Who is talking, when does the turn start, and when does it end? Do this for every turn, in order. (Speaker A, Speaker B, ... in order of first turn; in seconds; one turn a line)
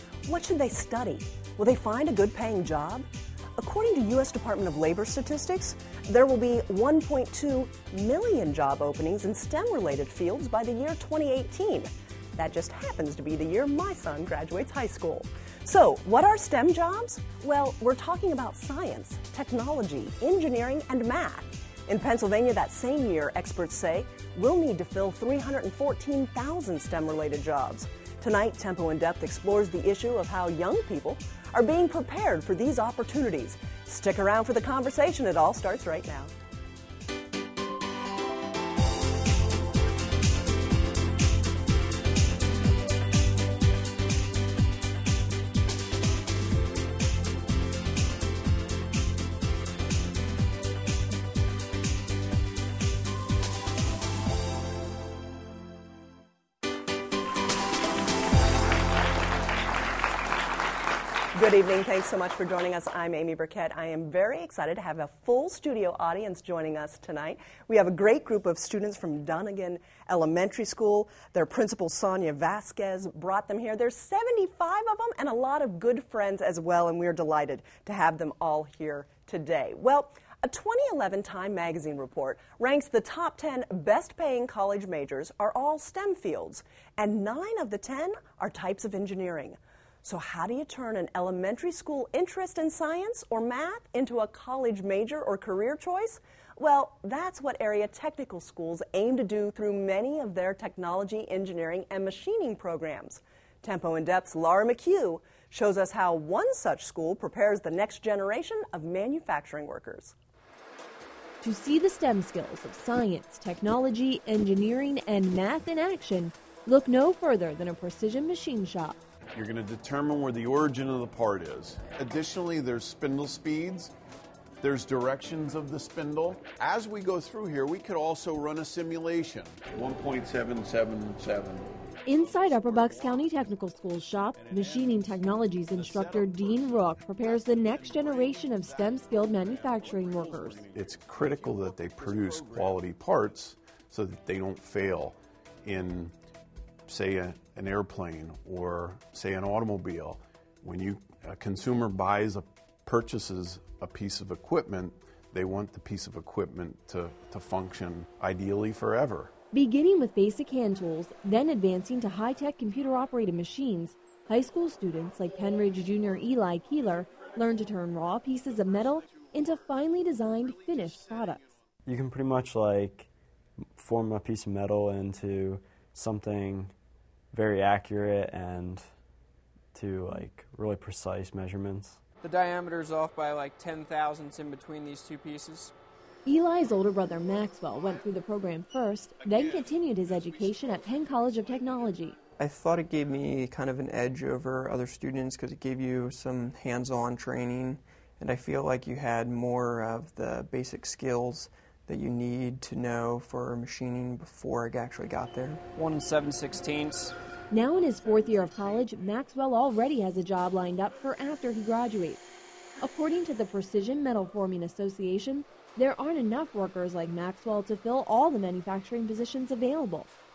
Speaker A: 0.2-36.3
Speaker A: 61.3-110.2
Speaker B: 111.4-119.0
Speaker C: 119.3-123.9
Speaker C: 124.6-131.7
Speaker B: 132.1-140.7
Speaker C: 138.5-146.1
Speaker C: 146.9-159.3
Speaker B: 159.5-171.5
Speaker D: 171.8-173.1
Speaker D: 173.6-176.7
Speaker D: 177.3-178.9
Speaker D: 179.7-182.0
Speaker E: 182.2-185.7
Speaker B: 186.2-192.2
Speaker F: 192.4-205.6
Speaker E: 205.7-207.1
Speaker B: 207.5-212.2
Speaker B: 212.8-220.1